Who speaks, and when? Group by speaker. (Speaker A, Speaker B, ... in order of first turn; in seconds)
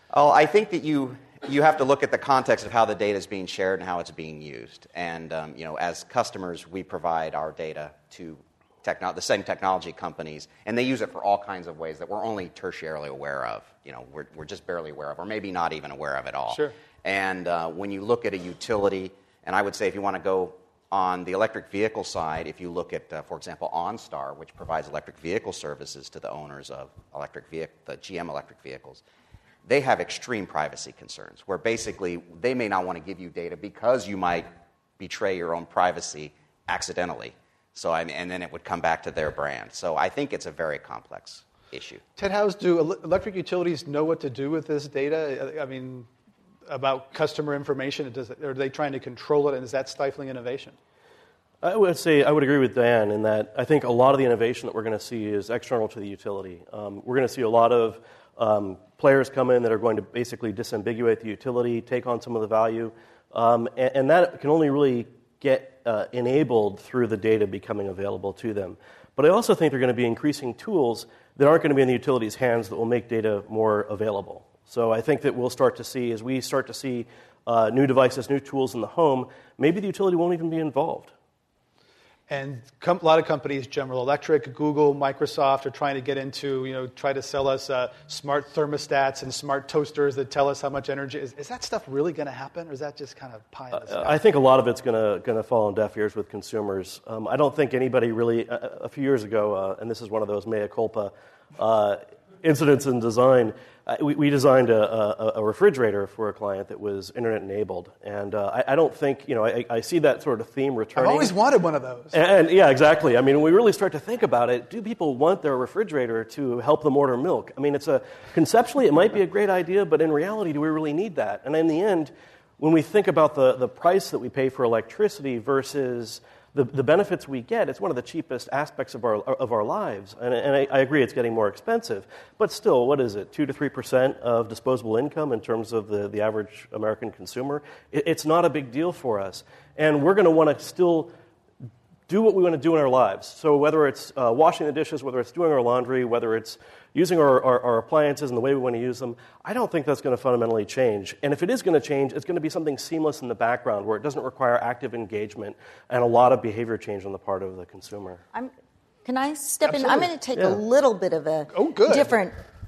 Speaker A: 0.1-29.0, 29.6-42.0
Speaker B: 42.2-46.1, 46.7-50.8, 82.3-94.2, 111.0-112.1, 161.5-162.2
Speaker C: 51.6-81.1, 93.7-111.3, 112.1-141.1, 142.1-158.2
Speaker D: 159.0-162.3